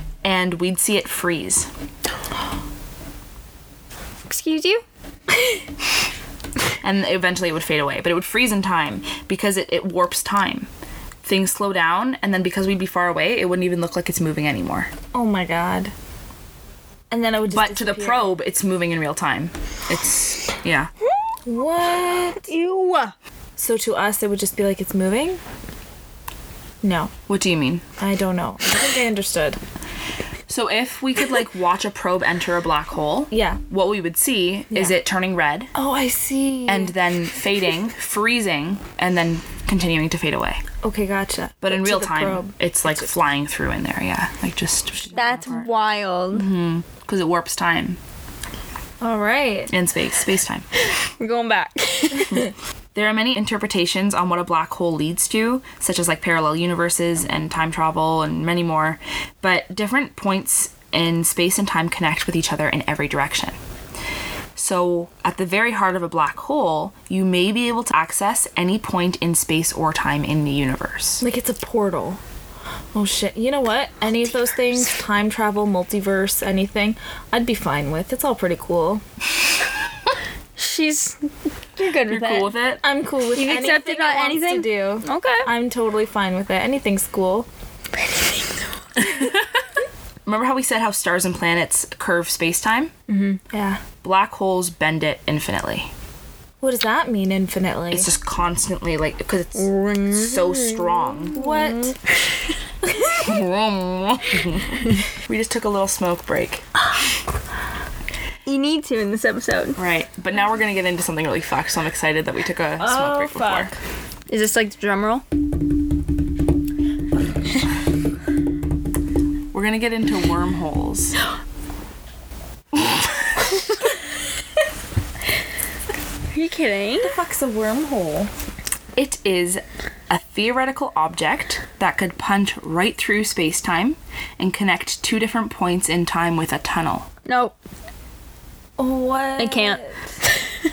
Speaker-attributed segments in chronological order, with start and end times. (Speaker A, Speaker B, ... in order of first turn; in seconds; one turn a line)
Speaker A: 0.2-1.7
Speaker B: 4.3-4.8
Speaker A: 6.8-10.7
Speaker A: 11.2-14.9
Speaker C: 15.1-15.9
Speaker C: 17.1-18.3
Speaker A: 17.5-20.9
Speaker C: 21.5-22.5
Speaker B: 22.5-23.1
Speaker C: 23.6-25.4
Speaker C: 26.8-27.1
Speaker A: 27.3-27.9
Speaker C: 28.0-29.6
Speaker A: 30.5-35.7
Speaker C: 33.3-33.6
Speaker C: 34.7-35.0
Speaker C: 35.7-37.0
Speaker A: 36.7-40.6
Speaker C: 40.8-43.1
Speaker A: 41.6-45.7
Speaker B: 45.1-46.5
Speaker A: 46.3-48.0
Speaker C: 49.0-49.8
Speaker A: 49.7-50.7
Speaker B: 50.9-52.5
Speaker A: 53.0-63.6
Speaker A: 64.6-71.2
Speaker C: 71.2-72.2
Speaker C: 72.9-79.0
Speaker B: 80.6-82.5
Speaker A: 82.1-82.8
Speaker C: 82.8-87.5
Speaker B: 83.3-85.5
Speaker B: 88.0-88.8
Speaker A: 89.0-89.5
Speaker A: 90.3-92.9
Speaker B: 93.1-93.4
Speaker C: 93.5-93.8
Speaker A: 94.0-95.9
Speaker C: 96.6-98.1
Speaker A: 97.9-101.4
Speaker B: 99.6-102.2
Speaker C: 101.3-102.0
Speaker C: 102.9-103.3
Speaker A: 103.2-106.7
Speaker B: 108.5-109.8
Speaker A: 109.8-113.7
Speaker C: 112.8-113.7
Speaker B: 114.3-115.2
Speaker A: 119.5-121.2
Speaker A: 122.7-123.5
Speaker B: 126.3-127.1
Speaker C: 127.0-128.3
Speaker A: 129.0-137.1
Speaker B: 137.3-137.6
Speaker C: 138.8-140.1
Speaker B: 139.4-140.4